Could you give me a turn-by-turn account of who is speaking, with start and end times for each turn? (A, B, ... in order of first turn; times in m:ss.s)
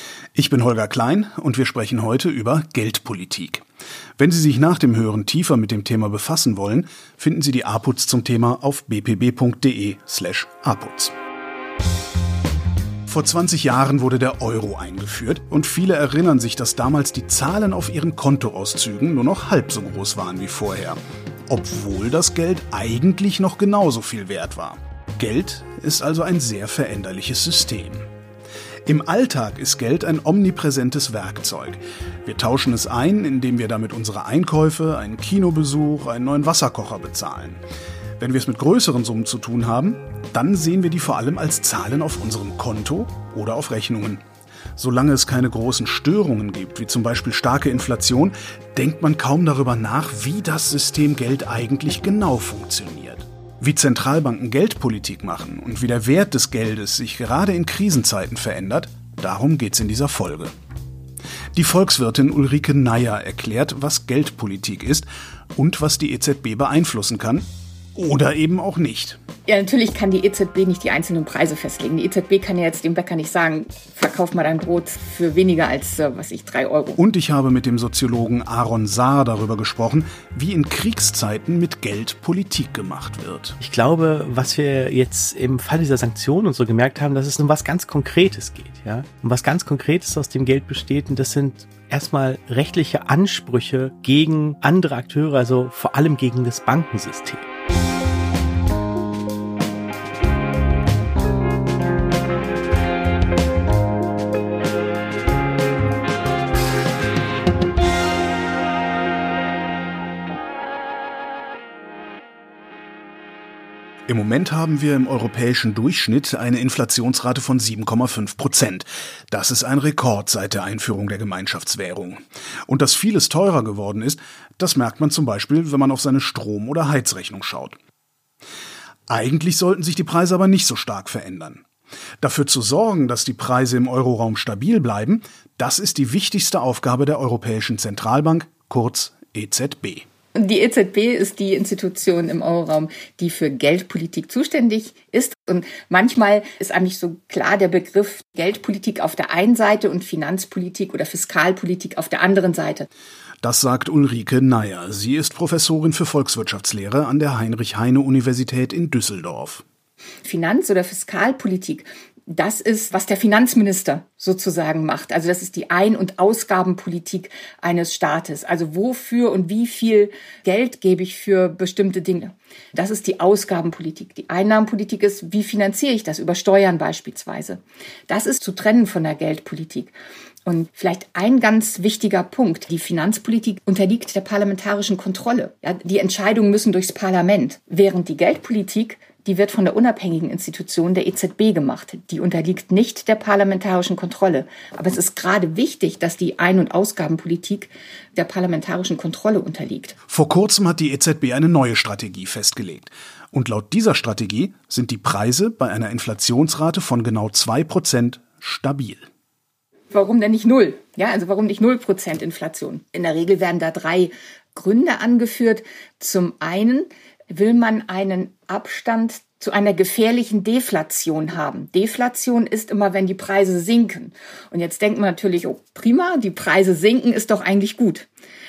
0:00.4-0:03.6 A
0:04.2-0:11.1 A
0:13.1-0:28.1 A
0:28.9-0:37.6 A
0:38.2-0:44.2 A
0:44.8-1:00.5 A
1:01.5-1:07.4 A
1:08.0-1:09.2 A
1:09.4-1:17.0 B
1:17.0-1:23.6 A
1:23.6-1:37.4 C
1:54.1-2:07.8 A
2:09.1-2:11.6 A
2:12.2-2:20.0 A
2:20.4-2:32.9 B
2:33.4-2:39.6 A
2:40.2-2:59.9 B
3:00.4-3:20.0 B
3:20.1-3:29.1 A
3:29.9-3:48.1 B